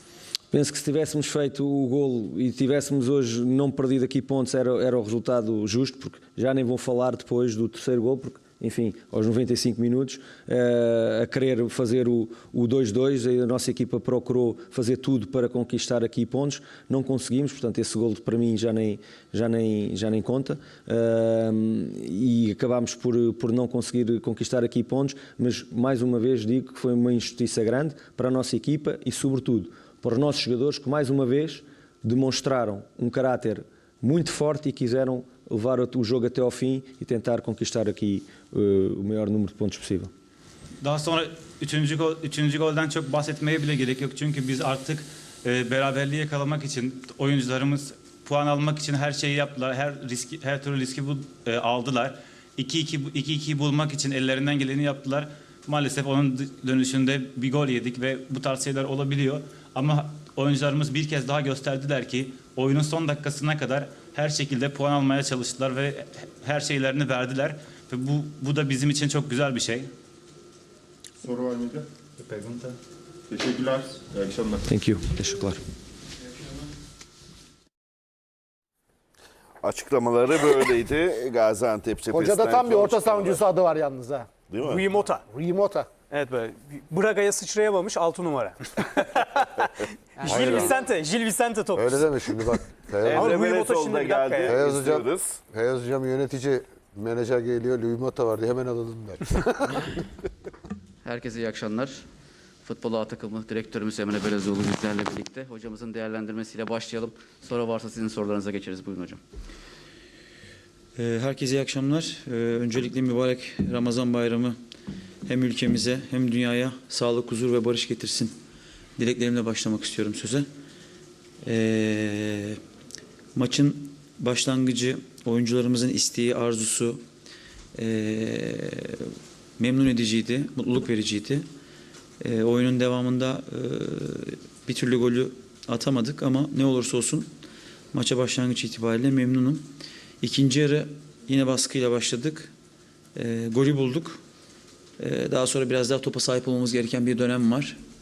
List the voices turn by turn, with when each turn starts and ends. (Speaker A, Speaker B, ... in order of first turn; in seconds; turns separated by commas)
Speaker A: 0.5-40.1, Speaker B: 40.8-69.9, Speaker C: 71.2-72.8, Speaker C: 73.3-74.7, Speaker A: 74.7-75.6, Speaker D: 79.6-83.5, Speaker E: 82.1-84.3, Speaker D: 84.5-84.9, Speaker F: 84.6-85.2, Speaker E: 85.3-85.9, Speaker F: 86.1-92.3, Speaker G: 90.2-90.7, Speaker H: 90.2-90.8, Speaker H: 91.8-93.3, Speaker D: 93.0-95.4, Speaker F: 93.1-94.6, Speaker H: 94.5-99.8, Speaker G: 101.0-102.0, Speaker G: 102.6-109.2, Speaker I: 111.0-114.6, Speaker I: 115.2-118.3, Speaker I: 119.0-120.5, Speaker I: 121.4-122.6, Speaker I: 123.3-127.0, Speaker I: 127.8-129.0, Speaker I: 129.6-131.5, Speaker I: 132.2-137.3, Speaker I: 137.9-139.7, Speaker I: 140.2-142.5, Speaker I: 143.1-144.2, Speaker I: 145.0-147.8